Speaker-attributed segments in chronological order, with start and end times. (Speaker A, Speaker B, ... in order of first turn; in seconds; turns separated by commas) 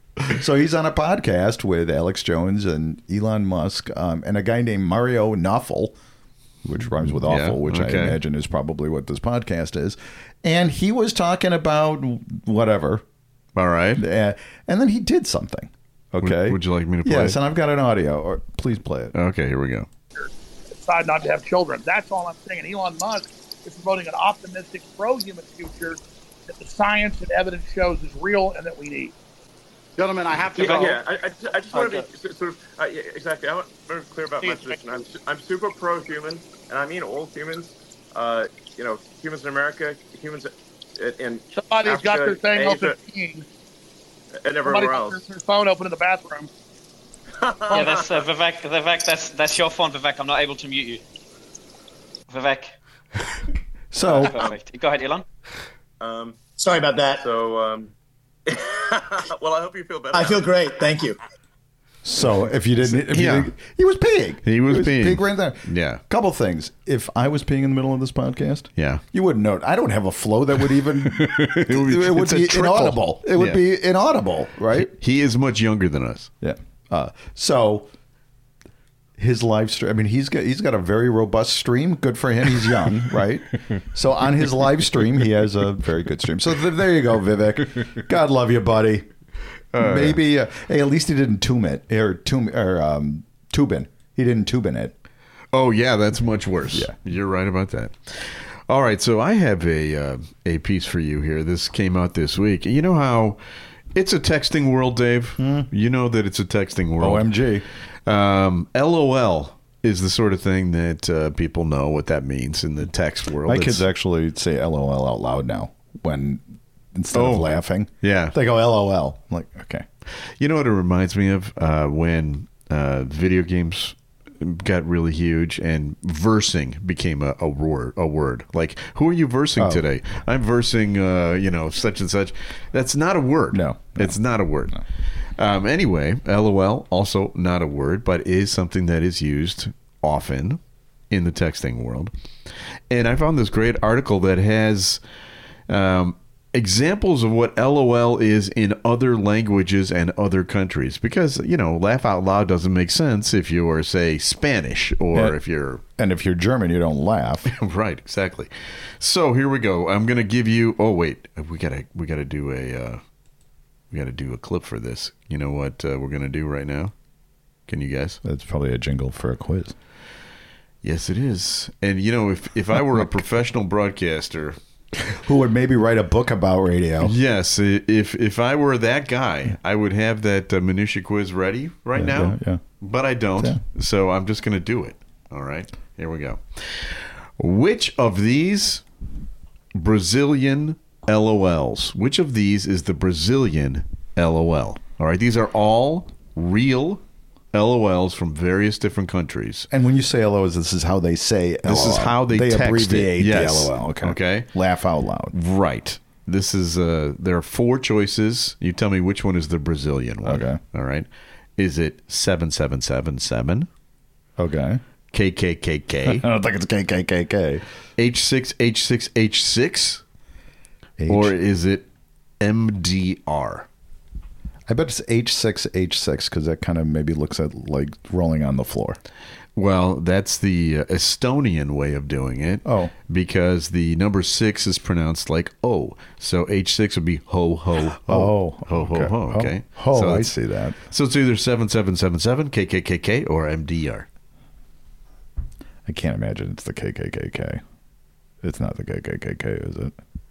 Speaker A: 0.2-5.9, Speaker A: 6.6-13.0, Speaker B: 7.2-8.2, Speaker B: 13.6-14.0, Speaker A: 14.0-19.1, Speaker B: 16.2-17.4, Speaker B: 19.1-19.9, Speaker C: 20.2-29.1, Speaker D: 30.0-31.0, Speaker E: 30.5-31.0, Speaker F: 30.6-43.0, Speaker E: 31.7-32.0, Speaker C: 34.4-34.8, Speaker C: 41.5-43.5, Speaker F: 44.4-45.2, Speaker C: 44.6-46.5, Speaker F: 47.4-48.2, Speaker C: 47.7-48.1, Speaker E: 47.7-51.0, Speaker E: 52.3-52.7, Speaker A: 53.9-54.4, Speaker E: 54.0-55.2, Speaker F: 56.0-56.5, Speaker D: 56.6-57.3, Speaker F: 57.2-57.9, Speaker F: 58.5-60.5, Speaker D: 60.1-61.2, Speaker A: 62.0-74.9, Speaker B: 62.9-63.5, Speaker B: 64.4-66.0, Speaker B: 68.8-69.0, Speaker B: 71.0-73.6, Speaker B: 74.7-76.3, Speaker A: 76.4-77.9, Speaker A: 79.2-89.1, Speaker B: 89.7-90.2, Speaker A: 89.8-94.9, Speaker B: 95.5-103.4, Speaker B: 103.9-107.3, Speaker A: 105.4-105.7, Speaker A: 107.0-107.7, Speaker B: 108.0-113.8, Speaker A: 113.5-116.4, Speaker A: 116.9-119.8, Speaker B: 117.1-117.5, Speaker B: 118.0-118.3, Speaker B: 120.4-134.8, Speaker A: 129.6-129.8, Speaker A: 133.5-134.2, Speaker B: 135.3-142.1, Speaker B: 142.9-145.0, Speaker B: 145.7-155.8, Speaker A: 156.0-157.5, Speaker B: 157.5-163.0, Speaker B: 163.9-166.9, Speaker B: 167.7-168.2, Speaker A: 168.2-169.7, Speaker B: 170.8-174.6, Speaker A: 175.1-177.1, Speaker B: 177.0-188.8, Speaker A: 181.9-182.6, Speaker B: 189.7-197.0, Speaker B: 197.5-199.7, Speaker A: 199.7-205.3, Speaker B: 201.6-204.5, Speaker B: 205.3-211.1, Speaker A: 210.2-210.6, Speaker B: 211.6-213.7, Speaker A: 214.4-214.8, Speaker B: 215.1-216.2, Speaker A: 216.0-217.6, Speaker B: 218.0-220.0, Speaker A: 221.0-221.3, Speaker B: 221.1-221.8, Speaker B: 222.4-223.7, Speaker A: 224.7-229.0, Speaker B: 229.6-240.3, Speaker A: 232.6-232.9, Speaker A: 238.0-240.8, Speaker B: 240.9-244.1, Speaker A: 245.8-247.6, Speaker A: 248.4-249.9